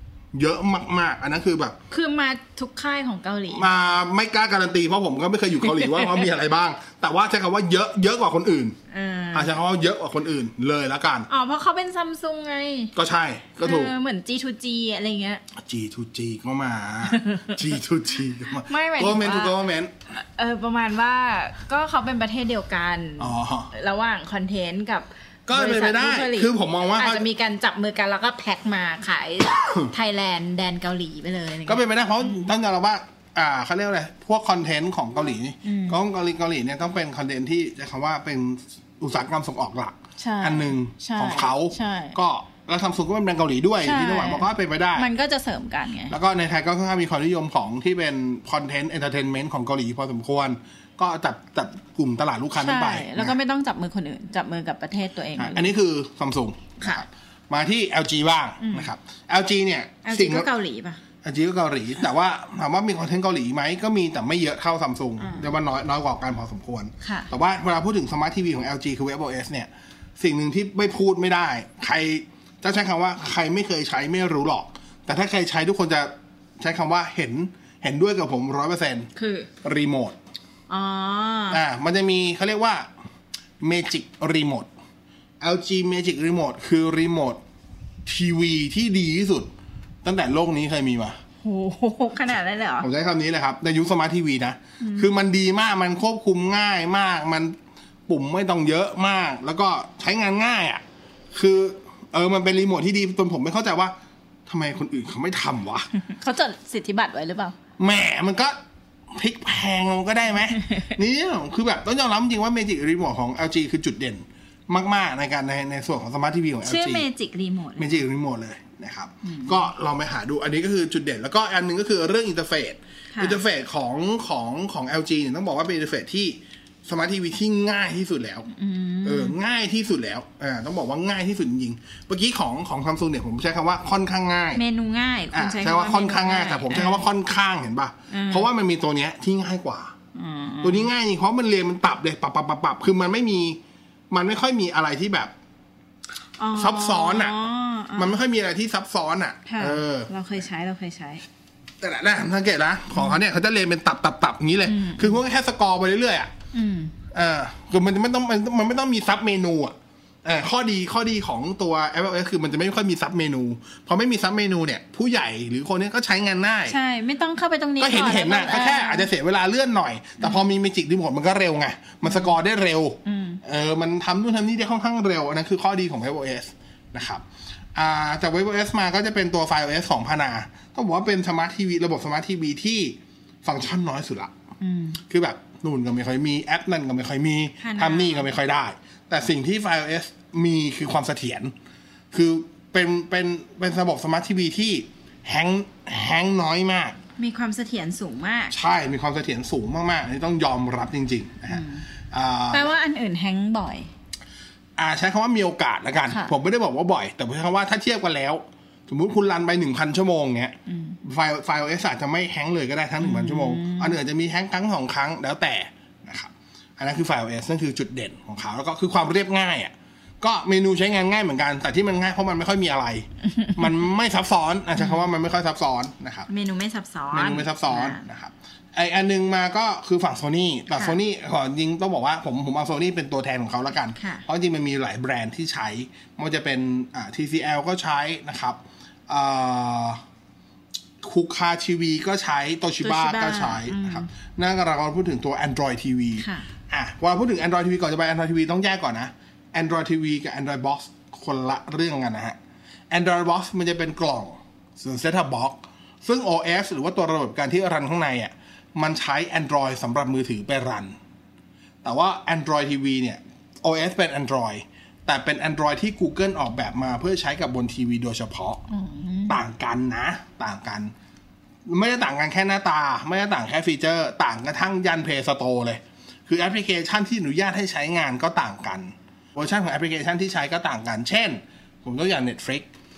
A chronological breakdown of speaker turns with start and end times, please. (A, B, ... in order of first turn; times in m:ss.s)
0:00.3-0:01.8 A
0:01.9-0:03.7 B
0:03.5-0:08.8 A
0:05.7-0:06.2 B
0:08.9-0:09.6 B
0:09.3-0:11.3 A
0:11.3-0:12.9 B
0:12.9-0:13.9 A
0:13.6-0:15.4 B
0:15.5-0:19.9 A
0:17.1-0:17.6 B
0:18.5-0:19.6 B
0:20.1-0:32.5 B
0:23.2-0:23.7 A
0:25.5-0:27.2 A
0:31.7-0:45.1 A
0:35.6-0:36.0 B
0:40.2-0:42.2 B
0:43.8-0:46.1 B
0:46.1-0:53.4 A
0:52.6-0:55.7 B
0:55.4-1:00.5 A
0:58.6-0:58.9 B
1:00.0-1:01.0 B
1:01.2-1:19.1 A
1:05.2-1:05.5 B
1:07.0-1:07.3 B
1:19.1-1:19.5 B
1:19.6-1:20.2 A
1:20.7-1:21.6 B
1:21.5-1:22.9 A
1:23.6-1:24.7 A
1:25.4-1:27.4 A
1:28.0-1:29.5 A
1:30.0-1:31.2 A
1:31.4-1:32.9 B
1:32.8-1:37.5 A
1:34.8-1:35.1 B
1:38.1-1:44.0 A
1:44.5-1:45.9 A
1:46.0-1:47.6 B
1:47.8-1:48.6 A
1:49.1-1:57.1 A
1:50.6-1:50.9 B
1:56.6-1:58.0 B
1:57.8-2:08.5 A
1:59.2-1:59.6 B
2:03.1-2:03.4 B
2:08.5-2:09.4 B
2:09.0-2:14.6 A
2:14.5-2:17.0 B
2:15.3-2:19.9 A
2:18.1-2:18.5 B
2:20.1-2:20.9 B
2:20.6-2:25.3 A
2:26.4-2:28.2 B
2:26.5-2:27.3 A
2:28.0-2:30.1 A
2:29.4-2:31.2 B
2:31.8-2:36.3 A
2:34.6-2:35.2 B
2:36.5-2:36.9 B
2:37.1-2:46.8 A
2:46.7-2:49.1 B
2:47.8-2:57.2 A
2:52.0-2:52.4 B
2:53.0-2:53.4 B
2:57.8-3:04.3 A
3:04.6-3:05.0 B
3:05.0-3:11.5 A
3:07.6-3:08.3 B
3:12.1-3:17.0 A
3:17.2-3:18.5 B
3:18.5-3:22.7 A
3:21.5-3:21.8 B
3:22.5-3:23.9 B
3:24.8-3:46.3 A
3:30.7-3:31.0 B
3:33.0-3:34.0 B
3:43.3-3:43.7 B
3:46.3-3:48.0 B
3:47.1-4:00.0 A
3:54.0-3:54.2 B
4:01.0-4:12.4 A
4:02.8-4:04.1 B
4:06.2-4:06.5 B
4:12.9-4:21.0 A
4:21.8-4:28.6 A
4:28.7-4:29.4 B
4:29.3-4:30.9 A
4:31.7-4:42.7 A